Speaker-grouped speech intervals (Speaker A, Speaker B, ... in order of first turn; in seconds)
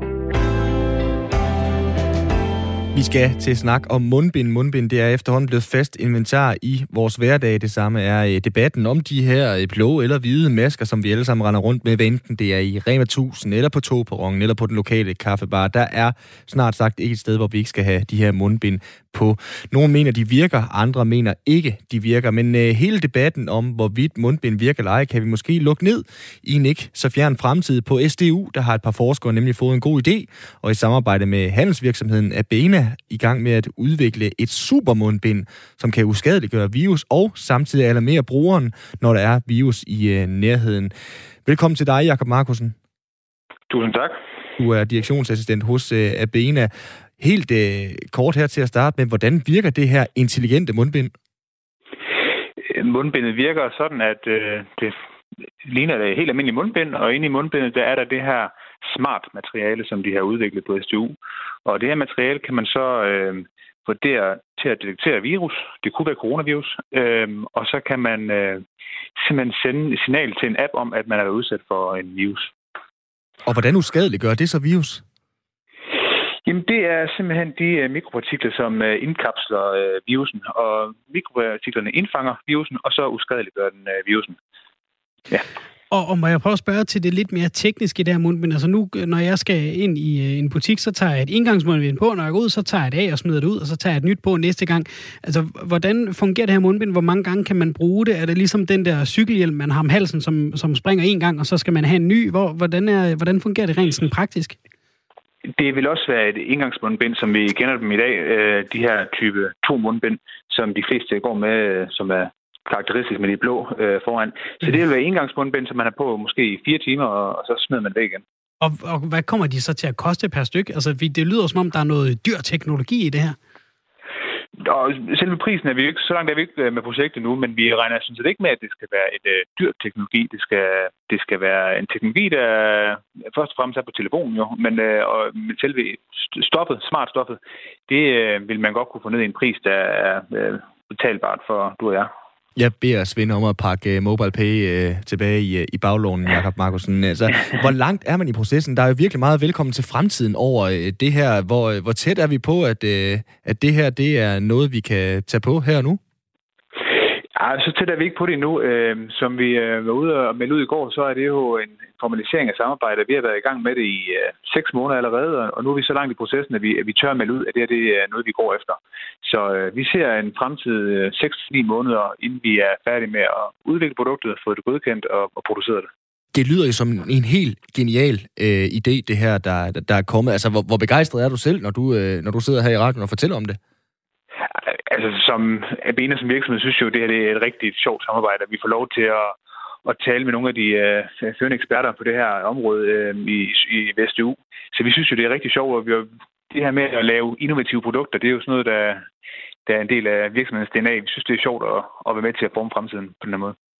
Speaker A: 2.9-40.9, 41.4-42.7, 44.6-51.1, 73.4-75.0, 142.6-156.0, 176.3-183.6
Speaker B: 43.7-44.2, 52.6-55.0, 55.6-61.1, 61.6-68.6, 69.2-72.5, 76.4-84.4, 105.5-118.2, 124.6-142.1, 156.9-175.9, 184.5-199.1, 199.7-203.5
Speaker C: 85.9-104.6, 118.6-123.4